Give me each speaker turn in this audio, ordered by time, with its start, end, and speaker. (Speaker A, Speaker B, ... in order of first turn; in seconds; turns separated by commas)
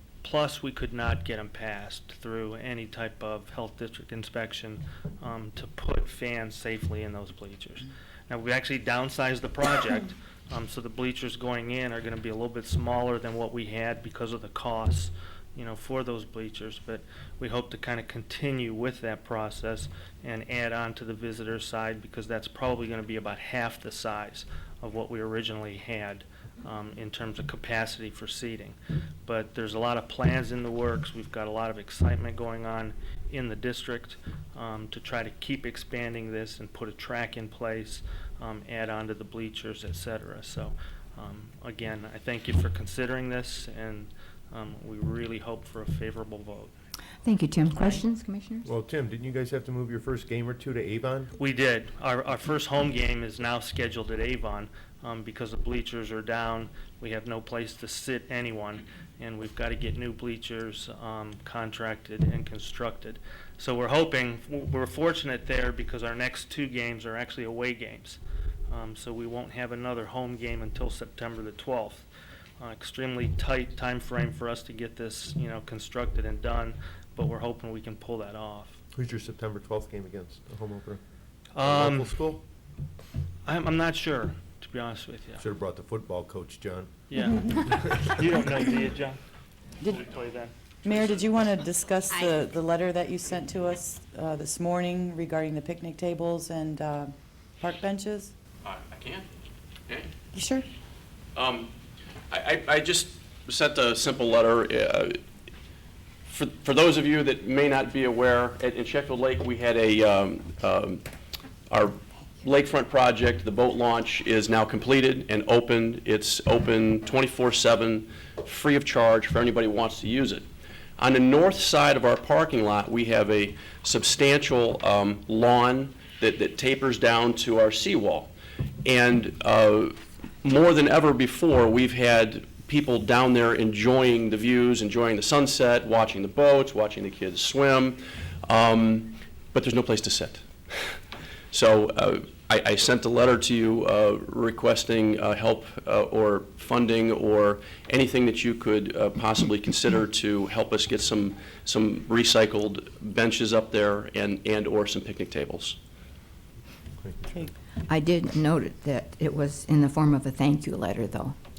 Speaker A: 0.2-46.7, Speaker B: 47.2-48.7, Speaker C: 48.6-51.3, Speaker A: 51.4-72.1, Speaker A: 72.6-78.8, Speaker C: 78.9-81.0, Speaker A: 81.5-82.2, Speaker C: 81.6-82.4, Speaker A: 83.5-85.4, Speaker C: 85.4-86.9, Speaker A: 87.1-89.2, Speaker A: 89.9-90.5, Speaker D: 90.8-98.3, Speaker E: 98.6-99.3, Speaker D: 100.3-100.7, Speaker E: 101.3-101.7, Speaker E: 102.3-105.2, Speaker E: 106.3-111.0, Speaker E: 111.7-120.5, Speaker E: 121.0-128.3, Speaker E: 128.8-140.9, Speaker E: 141.5-155.8, Speaker C: 157.0-157.5, Speaker B: 157.9-161.3